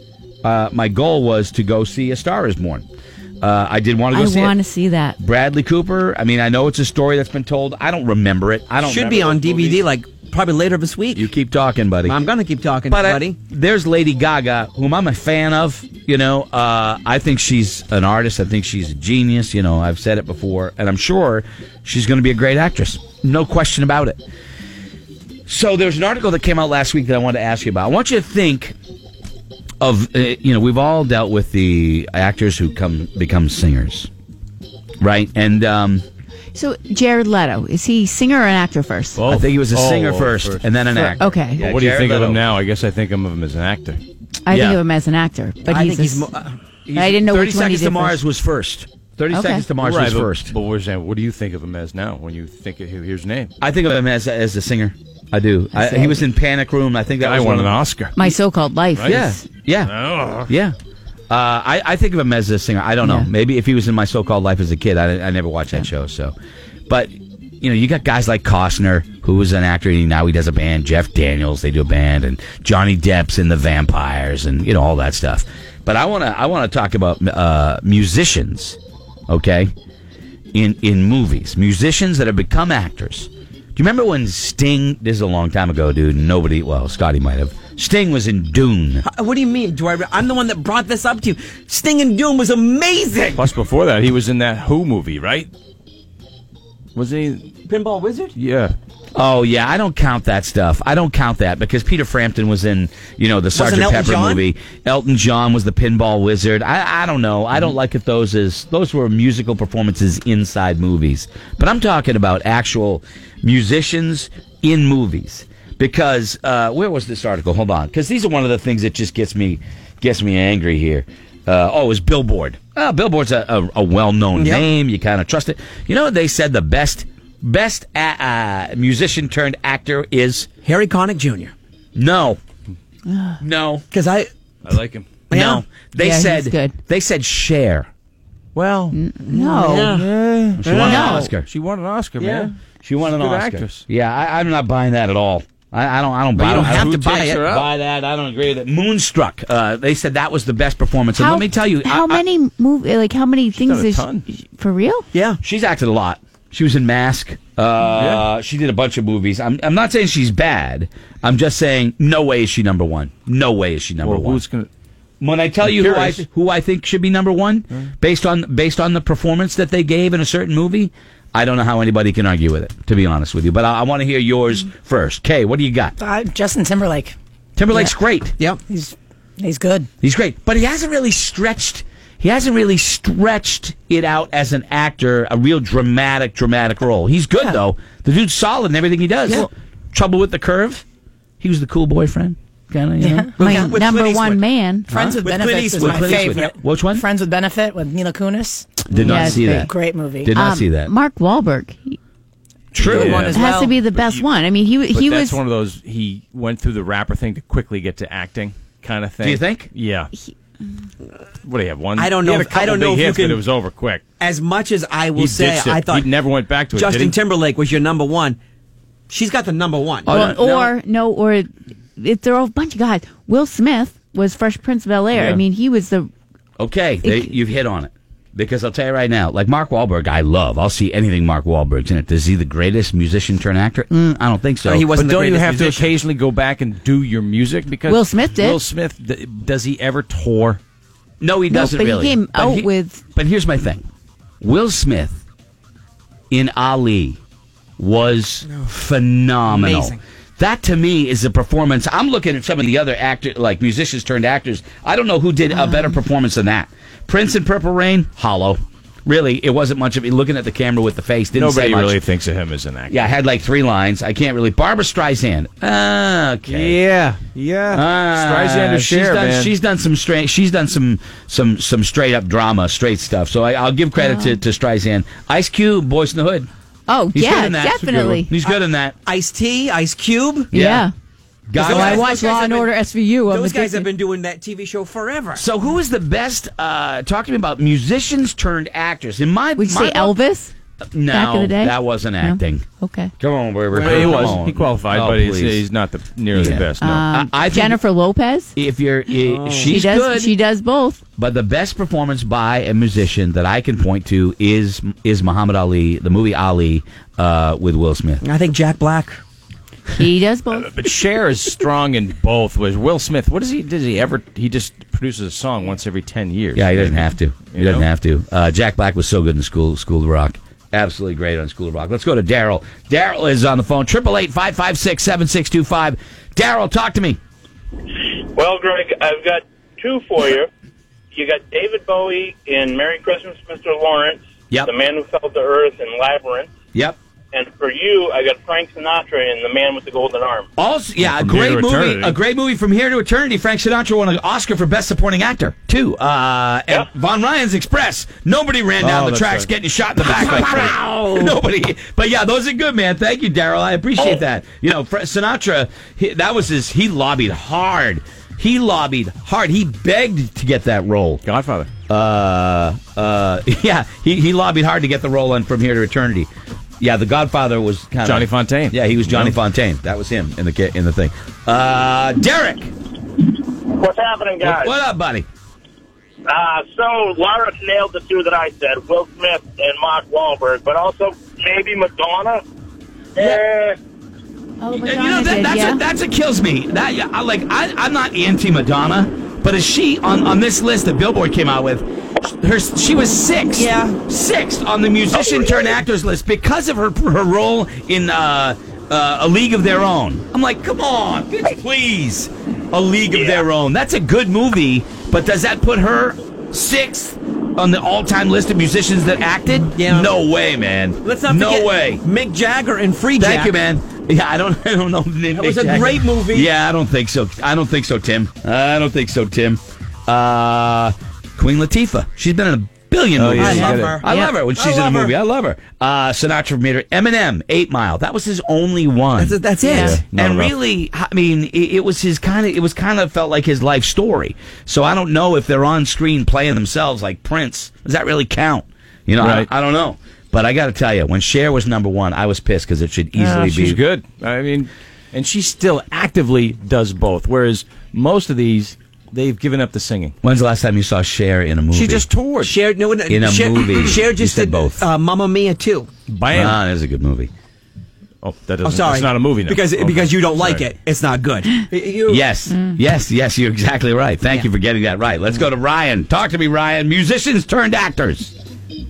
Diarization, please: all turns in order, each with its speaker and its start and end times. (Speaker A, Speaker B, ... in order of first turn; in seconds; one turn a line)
Speaker A: 0.4-2.8
Speaker A: 3.4-4.5
Speaker B: 4.1-5.2
Speaker A: 5.2-9.5
Speaker C: 8.8-11.3
Speaker D: 9.3-9.7
Speaker A: 11.1-12.2
Speaker C: 12.0-13.4
Speaker A: 12.9-24.2
Speaker A: 25.5-28.8
Speaker A: 29.8-34.1
Speaker A: 35.0-36.0
Speaker B: 36.5-39.2
Speaker D: 39.2-44.0
Speaker A: 39.3-42.4
Speaker B: 41.1-41.6
Speaker B: 44.4-46.2
Speaker A: 44.5-44.8
Speaker C: 45.6-46.6
Speaker A: 46.9-50.5
Speaker B: 46.9-48.2
Speaker B: 49.3-49.6
Speaker D: 49.8-53.5
Speaker A: 53.6-57.8
Speaker B: 55.7-56.2
Speaker D: 57.2-58.3
Speaker B: 58.1-59.4
Speaker D: 59.0-59.2
Speaker A: 59.0-59.9
Speaker D: 59.8-60.5
Speaker A: 60.4-60.7
Speaker A: 61.3-66.3
Speaker B: 63.0-63.3
Speaker A: 66.9-78.8
Speaker A: 79.3-79.7
Speaker A: 80.5-89.0
Speaker C: 89.0-93.5
Speaker D: 93.3-95.5
Speaker D: 96.9-97.5
Speaker C: 97.7-98.3
Speaker D: 98.3-98.7
Speaker A: 99.1-130.5
Speaker C: 103.5-104.5
Speaker C: 124.3-124.6
Speaker C: 130.6-131.5
Speaker A: 131.9-132.4
Speaker B: 133.1-133.4
Speaker A: 133.4-133.8
Speaker C: 133.9-134.3
Speaker D: 134.6-135.1
Speaker C: 135.3-135.6
Speaker A: 135.3-137.9
Speaker B: 136.0-136.8
Speaker D: 138.5-139.0
Speaker B: 138.9-139.9
Speaker C: 139.3-140.1
Speaker D: 139.8-143.8
Speaker A: 140.5-141.5
Speaker C: 140.6-141.0
Speaker B: 140.8-141.3
Speaker C: 142.2-142.5
Speaker A: 142.8-152.2
Speaker D: 146.3-147.7
Speaker C: 146.4-147.4
Speaker B: 151.1-155.1
Speaker D: 153.6-154.2
Speaker C: 155.1-155.4
Speaker A: 155.4-164.4
Speaker D: 158.0-158.2
Speaker D: 164.0-164.7
Speaker A: 165.2-175.9
Speaker D: 165.7-166.2
Speaker E: 176.0-177.2
Speaker A: 177.6-178.3
Speaker E: 178.7-179.9
Speaker A: 180.0-190.8
Speaker A: 191.4-193.5
Speaker E: 193.0-193.7
Speaker C: 193.4-194.4
Speaker B: 193.4-195.0
Speaker A: 194.9-195.3
Speaker E: 194.9-200.3
Speaker C: 195.2-196.5
Speaker A: 195.8-197.0
Speaker A: 198.9-199.7
Speaker B: 199.0-199.7
Speaker A: 200.2-200.9
Speaker B: 200.3-202.0
Speaker A: 202.7-203.3
Speaker D: 202.8-203.4
Speaker C: 202.8-203.8
Speaker E: 202.9-203.4
Speaker B: 203.3-205.4
Speaker D: 203.9-204.2
Speaker D: 204.9-210.1
Speaker A: 209.2-209.7
Speaker D: 211.4-214.0
Speaker C: 211.9-213.4
Speaker C: 214.2-216.1
Speaker D: 215.2-217.2
Speaker C: 216.7-218.4
Speaker C: 219.1-220.2
Speaker A: 220.1-220.7
Speaker B: 220.1-226.1
Speaker A: 226.6-234.9
Speaker B: 227.0-227.3
Speaker C: 234.6-235.9
Speaker D: 234.9-240.6
Speaker B: 237.8-238.6
Speaker A: 241.2-243.8
Speaker B: 241.5-243.0
Speaker A: 244.4-245.2
Speaker A: 246.3-247.2
Speaker A: 247.8-262.0
Speaker C: 249.5-250.0
Speaker D: 261.3-263.0
Speaker A: 262.9-266.8
Speaker D: 266.5-269.5
Speaker A: 267.7-276.5
Speaker B: 273.9-274.4
Speaker B: 276.9-278.3
Speaker A: 277.1-278.9
Speaker C: 278.4-280.5
Speaker A: 280.5-280.9
Speaker B: 280.5-280.9
Speaker A: 281.5-282.1
Speaker C: 281.5-282.7
Speaker B: 281.6-283.9
Speaker C: 283.3-285.4
Speaker A: 285.4-290.1
Speaker B: 289.6-290.5
Speaker A: 290.9-292.6
Speaker B: 291.1-293.1
Speaker A: 293.2-295.6
Speaker D: 293.7-297.1
Speaker C: 293.8-294.4
Speaker A: 296.3-297.8
Speaker B: 296.8-298.5
Speaker A: 298.5-300.3
Speaker C: 299.2-299.8
Speaker B: 299.6-301.0
Speaker A: 301.2-308.2
Speaker C: 308.2-309.2
Speaker B: 309.9-310.7
Speaker D: 310.5-317.9
Speaker A: 316.5-327.2
Speaker F: 328.3-330.5
Speaker F: 331.1-336.5
Speaker F: 337.3-340.5
Speaker A: 340.6-361.2
Speaker D: 341.0-342.1
Speaker D: 348.8-349.5
Speaker D: 350.2-351.0
Speaker D: 361.2-361.7
Speaker A: 361.9-366.3
Speaker A: 366.8-372.7
Speaker D: 368.0-369.4
Speaker F: 373.7-374.7
Speaker A: 374.4-375.2
Speaker F: 376.3-382.4
Speaker F: 383.1-383.8
Speaker B: 384.6-385.8
Speaker A: 384.8-412.0
Speaker C: 393.5-394.0
Speaker C: 395.1-395.7
Speaker C: 409.8-410.2
Speaker C: 411.0-413.5
Speaker A: 413.2-443.8
Speaker C: 415.3-416.5
Speaker D: 423.1-424.0
Speaker C: 423.4-425.1
Speaker C: 429.2-430.0
Speaker B: 429.6-430.0
Speaker D: 429.8-430.5
Speaker D: 439.2-439.5
Speaker D: 443.1-450.1
Speaker A: 450.2-452.1
Speaker D: 451.7-452.6
Speaker C: 452.4-455.9
Speaker A: 453.1-454.8
Speaker D: 456.1-456.6
Speaker A: 456.3-457.3
Speaker D: 458.2-460.7
Speaker C: 458.6-462.2
Speaker A: 462.1-468.3